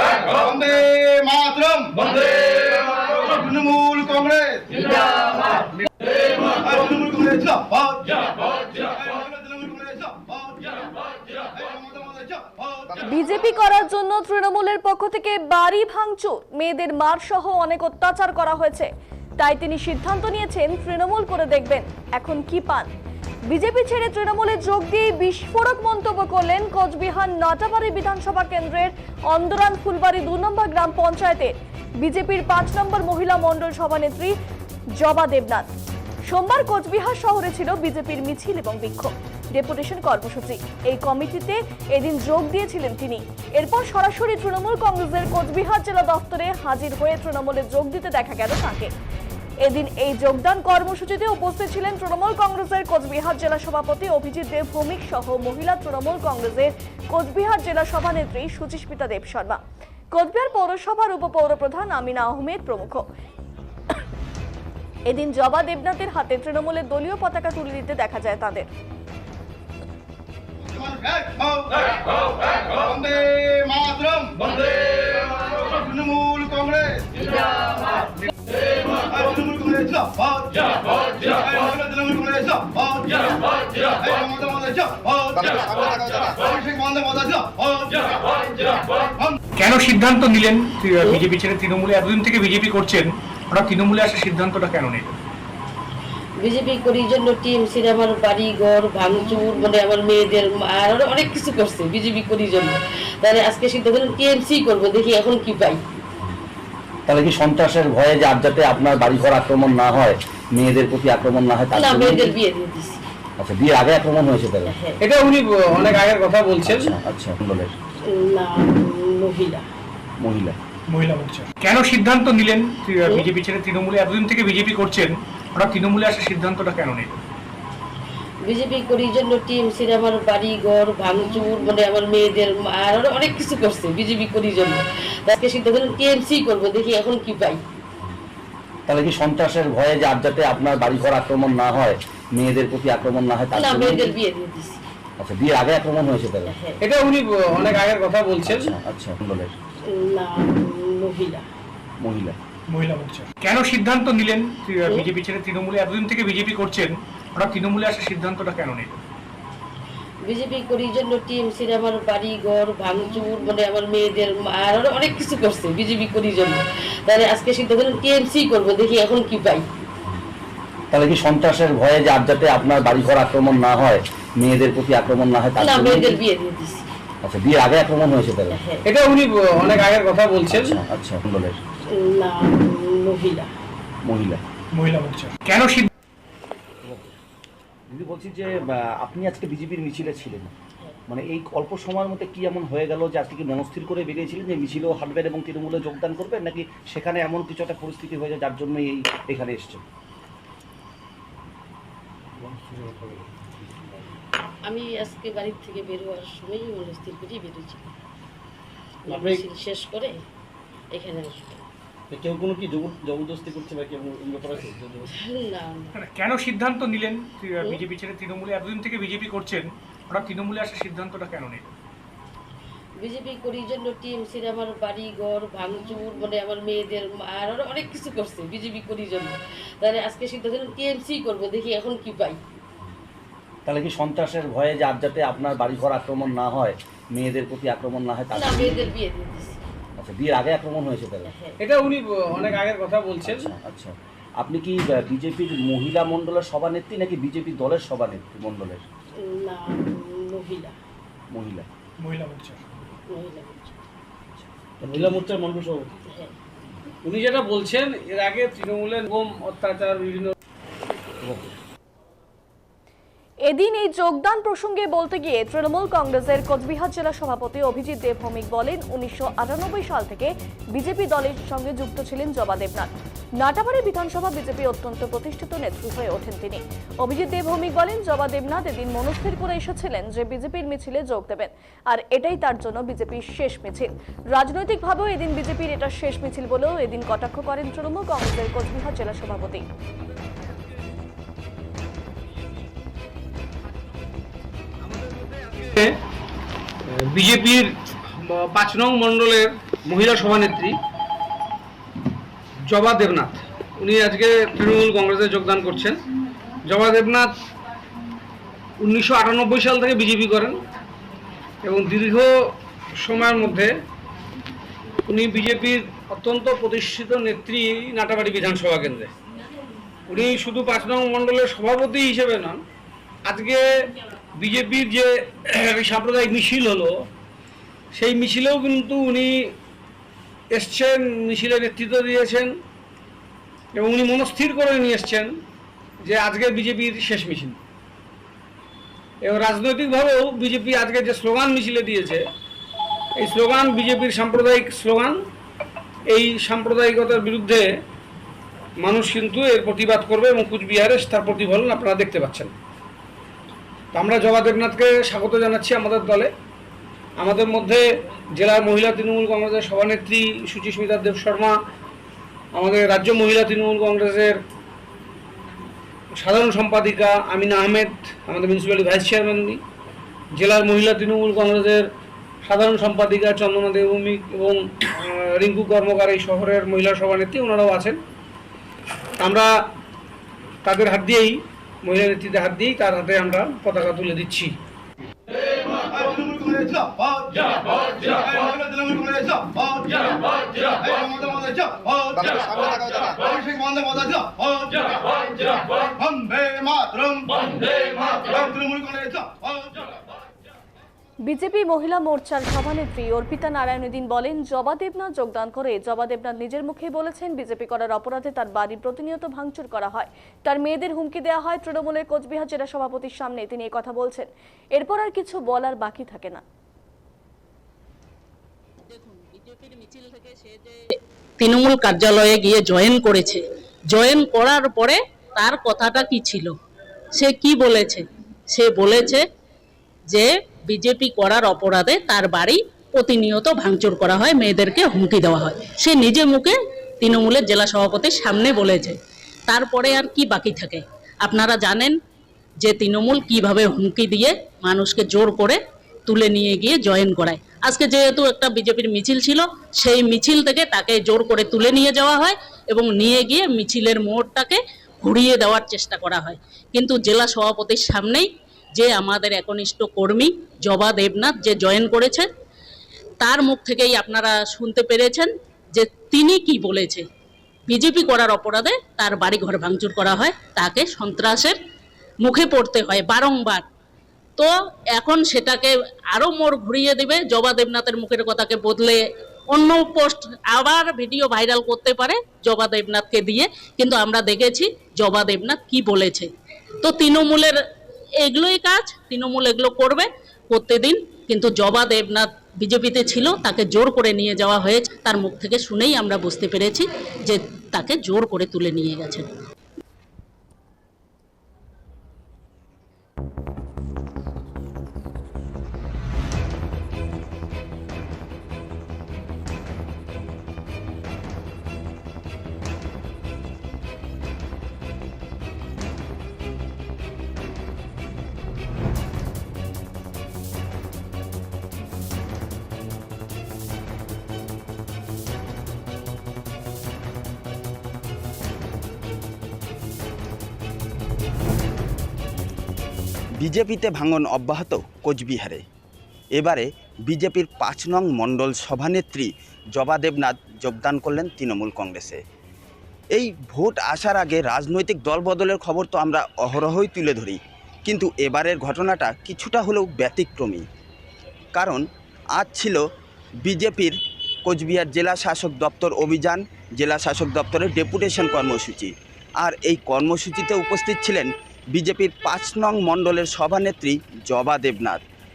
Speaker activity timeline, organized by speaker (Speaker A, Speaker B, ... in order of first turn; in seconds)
Speaker A: 0.3-5.6, 6.5-13.1, 70.6-72.0, 72.7-78.0, 78.9-89.4, 385.7-399.9
Speaker B: 13.0-22.9, 23.5-34.3, 35.0-35.7, 36.3-48.9, 49.6-59.6, 60.1-63.0, 65.1-68.7, 263.5-289.6, 401.2-416.4
Speaker C: 85.4-86.4, 202.4-203.1, 209.1-209.4, 212.1-215.1, 254.9-255.9, 392.2-393.2
Speaker D: 89.6-95.2, 120.9-127.2, 152.7-159.0, 184.7-185.9, 215.9-221.7, 252.0-252.6
Speaker E: 96.4-105.8, 111.7-113.0, 114.6-115.0, 118.0-119.6, 128.4-137.6, 143.5-144.8, 146.4-146.8, 149.8-151.4, 160.2-169.7, 175.6-176.9, 178.5-178.8, 181.9-183.5, 204.6-207.9, 209.1-210.2, 210.9-211.6, 215.1-215.9, 223.0-232.4, 238.3-239.6, 241.2-241.6, 249.2-250.8, 253.1-253.8, 256.1-256.3
Speaker F: 107.1-112.3, 113.4-114.7, 116.7-117.7, 120.2-120.6, 138.9-144.2, 145.2-146.5, 148.4-149.5, 152.0-152.4, 170.9-176.2, 177.2-178.6, 180.5-181.6, 184.1-184.4, 186.8-187.1, 187.9-190.5, 191.1-199.8, 233.7-238.9, 240.0-241.3, 243.2-248.8, 251.3-251.7, 254.8-255.2
Speaker G: 115.0-116.9, 146.8-148.7, 178.8-180.8, 241.6-243.5, 257.0-260.3, 290.1-290.7, 294.8-296.0, 296.9-300.8, 302.6-306.0, 306.6-307.4, 308.8-310.6, 311.6-313.7, 315.1-319.1, 320.1-322.6, 323.2-327.1, 327.9-329.5, 330.5-332.6, 333.7-335.4, 336.0-337.6, 339.2-342.3, 343.2-345.2, 346.1-347.8, 348.8-352.5, 353.9-356.3, 357.2-361.6, 362.5-364.4, 366.1-369.6, 370.3-371.9, 372.4-378.0, 379.2-379.5, 380.6-384.6
Speaker H: 418.9-420.8, 421.4-426.5, 427.1-429.2, 430.1-438.9, 439.5-441.9, 442.6-462.3, 463.2-467.0, 467.7-471.6, 472.2-473.6, 474.4-479.0, 479.5-486.3, 486.8-487.6, 488.2-499.3
Speaker I: 533.4-535.6, 536.4-542.2, 543.1-550.6, 551.5-551.8, 552.4-552.8, 553.4-565.0